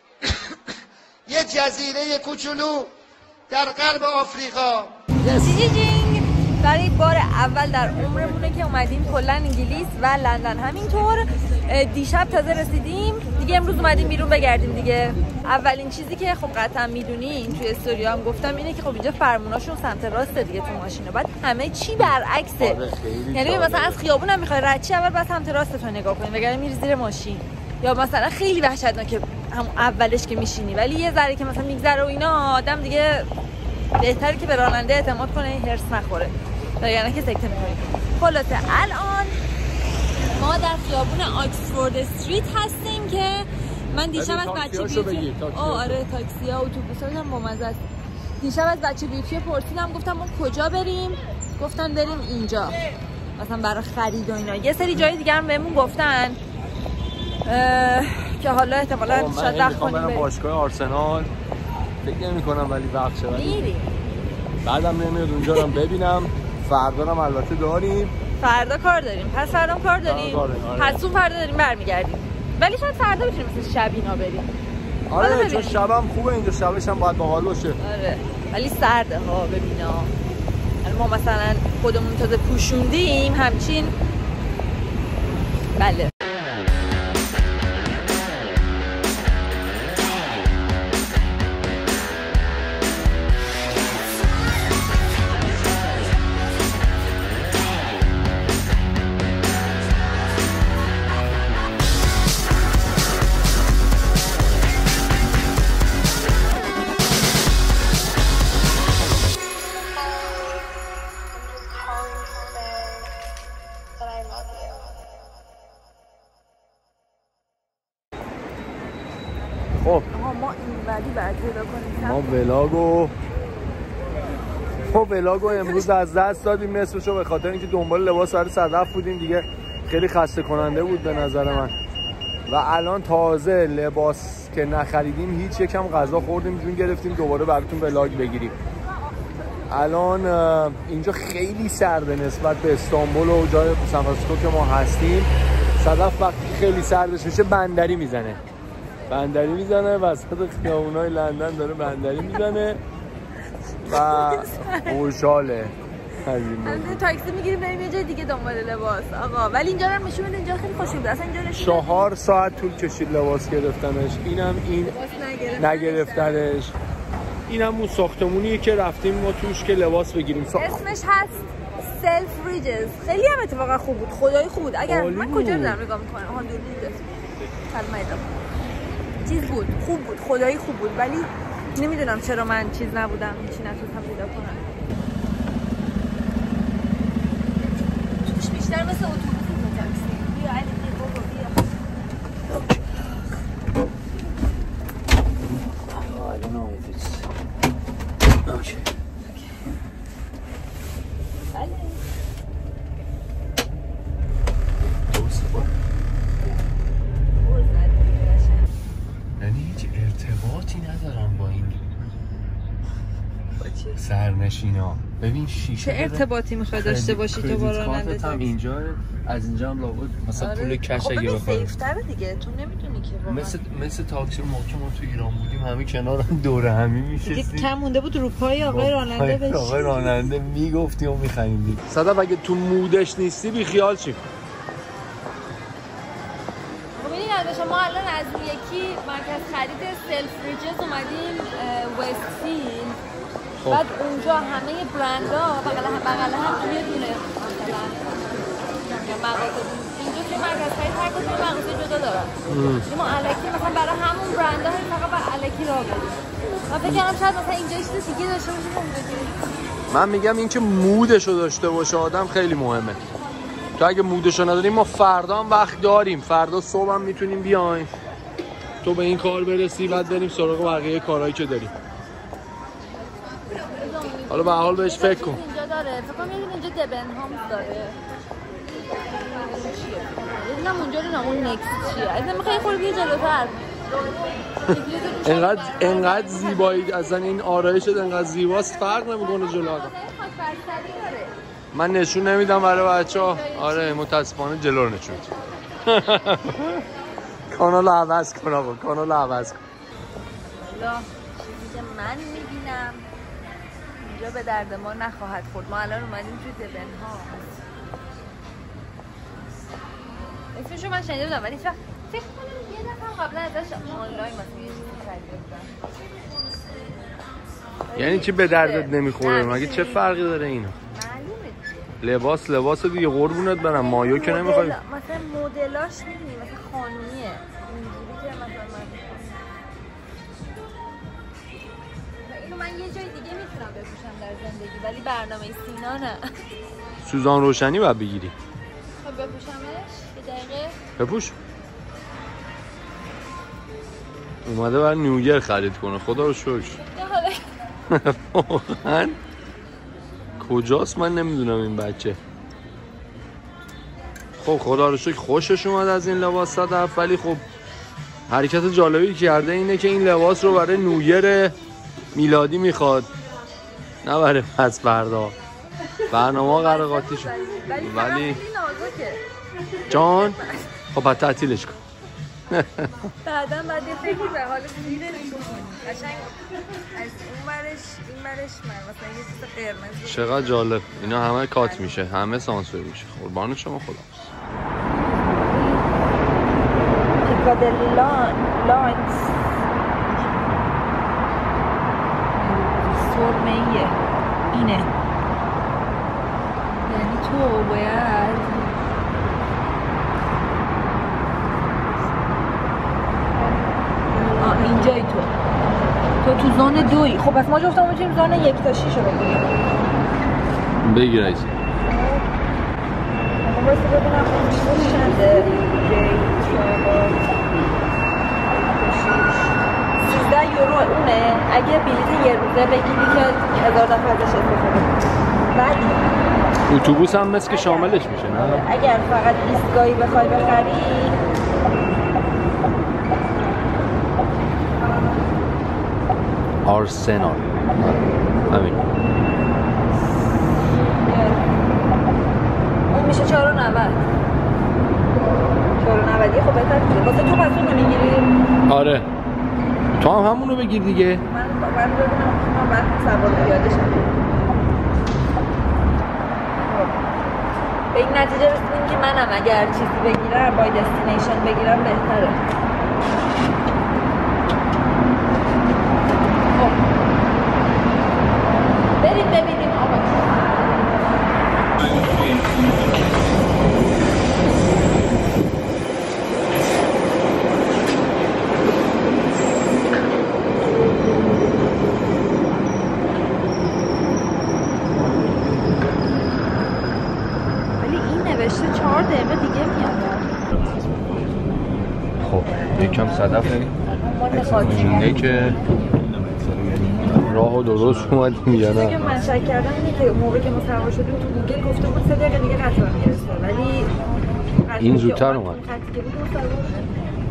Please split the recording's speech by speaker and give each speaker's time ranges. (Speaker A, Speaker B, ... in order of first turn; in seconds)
Speaker A: 1.3-2.9, 3.5-4.9
Speaker B: 5.2-5.6, 22.6-24.0, 44.1-46.0, 59.1-61.3, 62.0-63.6, 64.6-68.1, 70.0-71.0, 75.1-77.8, 122.0-123.1, 124.9-131.7, 132.5-138.6, 139.7-148.4, 149.1-152.8, 153.9-155.7, 156.2-157.0, 161.6-164.9, 165.6-166.7, 167.5-170.8, 174.8-175.8, 195.8-197.3, 198.4-198.9, 205.1-205.7, 209.4-211.8, 214.0-221.7, 223.3-227.7, 228.6-234.2, 252.5-252.9, 259.9-263.0, 263.8-267.9, 268.8-271.7, 274.3-275.4, 285.2-289.9, 291.7-295.3, 295.9-296.8, 297.5-299.6, 317.9-320.8, 322.0-324.8, 337.0-338.4, 341.0-341.4, 344.4-346.8, 347.9-349.2, 350.4-352.2, 354.4-357.4, 358.3-361.6, 362.1-363.1, 364.0-365.4, 366.1-368.4, 369.9-370.4, 370.9-371.8, 372.5-372.9, 380.0-384.3, 410.8-411.5, 426.7-428.6, 436.6-438.8, 448.7-449.1, 450.0-451.2, 492.2-493.7, 494.4-495.6, 497.0-499.1, 504.8-505.6
Speaker C: 5.3-22.8, 23.3-33.3, 34.0-39.4, 40.4-47.8, 48.4-52.8, 53.4-56.4, 57.5-60.3, 63.3-64.0, 68.4-74.5, 75.2-75.8, 77.8-80.1, 80.8-83.9, 85.8-86.1, 111.5-112.9, 120.1-122.4, 125.4-125.9, 130.8-131.8, 153.8-155.0, 156.6-162.1, 164.8-166.5, 170.5-177.0, 177.7-178.3, 179.2-184.7, 188.2-191.7, 199.3-199.6, 201.5-202.0, 207.4-208.7, 213.6-214.0, 215.8-218.5, 220.4-223.6, 227.2-230.2, 237.0-243.0, 243.7-248.2, 248.9-252.3, 252.9-259.4, 273.5-278.0, 279.0-287.3, 288.5-291.3, 293.1-294.0, 300.6-303.1, 304.0-307.5, 310.5-315.7, 317.9-320.1, 320.9-321.6, 323.7-329.3, 332.2-336.2, 339.0-340.8, 346.8-347.4, 366.1-369.2, 369.9-370.8, 373.2-381.9, 385.1-385.9, 387.2-389.3, 392.4-394.0, 394.5-394.9, 396.9-398.7, 404.2-405.3, 406.2-409.6, 411.9-412.3, 413.4-417.3, 418.5-425.0, 425.5-426.1, 427.5-431.2, 441.0-441.7, 442.9-444.0, 445.8-448.3, 451.3-454.1, 456.6-457.0, 457.9-462.4, 466.5-466.8, 469.0-470.9, 487.8-490.2, 492.6-493.0, 494.0-495.7, 498.7-503.9, 504.5-506.9